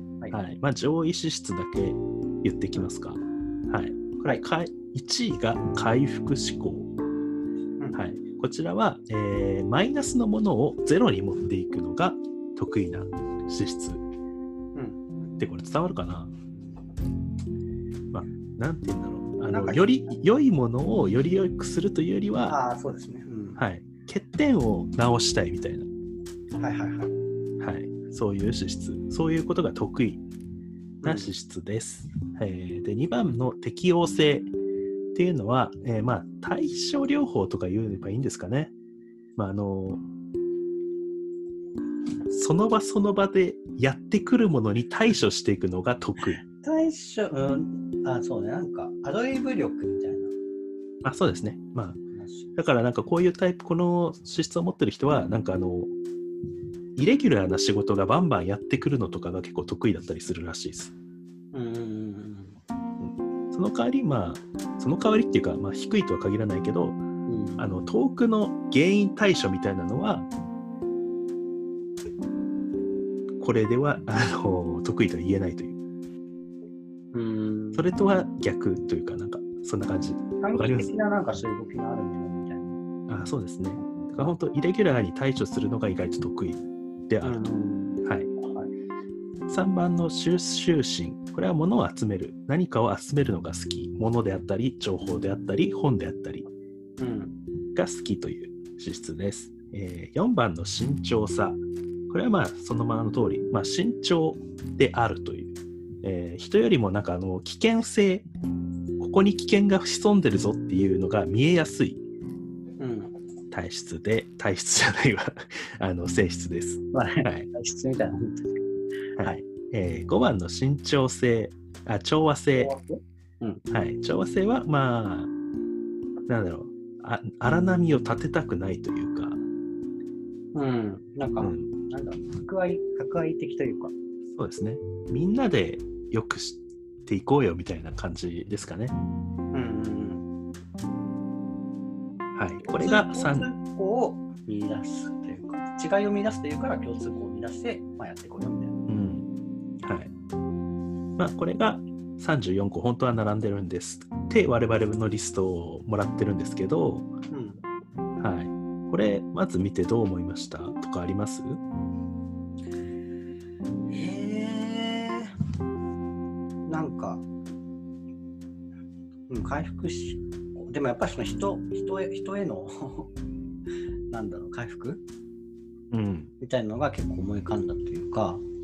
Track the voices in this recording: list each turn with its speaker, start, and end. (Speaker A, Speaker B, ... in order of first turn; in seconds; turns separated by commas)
Speaker A: 0.3-6.9, Speaker A: 7.9-14.0, Speaker B: 14.8-15.0, Speaker A: 15.4-16.3, Speaker A: 18.1-22.6, Speaker B: 19.5-20.2, Speaker B: 22.5-23.6, Speaker A: 23.6-25.9, Speaker B: 26.6-27.1, Speaker A: 27.6-30.2, Speaker A: 31.0-34.5, Speaker B: 31.0-31.3, Speaker A: 35.1-38.7, Speaker A: 39.4-40.0, Speaker A: 42.3-46.4, Speaker B: 46.5-50.3, Speaker A: 51.0-52.0, Speaker B: 52.1-52.5, Speaker A: 52.6-55.9, Speaker A: 57.0-60.9, Speaker B: 61.5-62.6, Speaker A: 63.0-67.0, Speaker B: 67.3-67.6, Speaker A: 67.6-70.3, Speaker A: 73.4-75.8, Speaker B: 77.1-77.9, Speaker A: 77.8-80.9, Speaker B: 80.4-82.8, Speaker A: 83.1-87.5, Speaker B: 83.8-84.3, Speaker B: 87.2-88.7, Speaker A: 88.0-88.3, Speaker A: 89.5-96.5, Speaker B: 97.0-97.4, Speaker A: 97.8-108.2, Speaker A: 109.0-112.0, Speaker B: 112.8-113.1, Speaker A: 113.5-117.5, Speaker B: 116.9-118.6, Speaker A: 119.2-122.7, Speaker B: 122.5-123.6, Speaker A: 123.7-125.3, Speaker A: 126.3-129.4, Speaker B: 130.5-133.9, Speaker A: 131.4-131.7, Speaker A: 134.3-138.9, Speaker B: 139.5-140.3, Speaker A: 142.3-143.5, Speaker B: 142.6-148.8, Speaker A: 148.9-149.3, Speaker A: 149.8-150.1, Speaker A: 151.2-157.1, Speaker B: 157.3-157.6, Speaker A: 158.2-161.6, Speaker B: 163.9-165.3, Speaker B: 166.7-167.2, Speaker B: 169.3-173.1, Speaker B: 174.1-175.0, Speaker A: 175.9-176.3, Speaker B: 176.4-178.4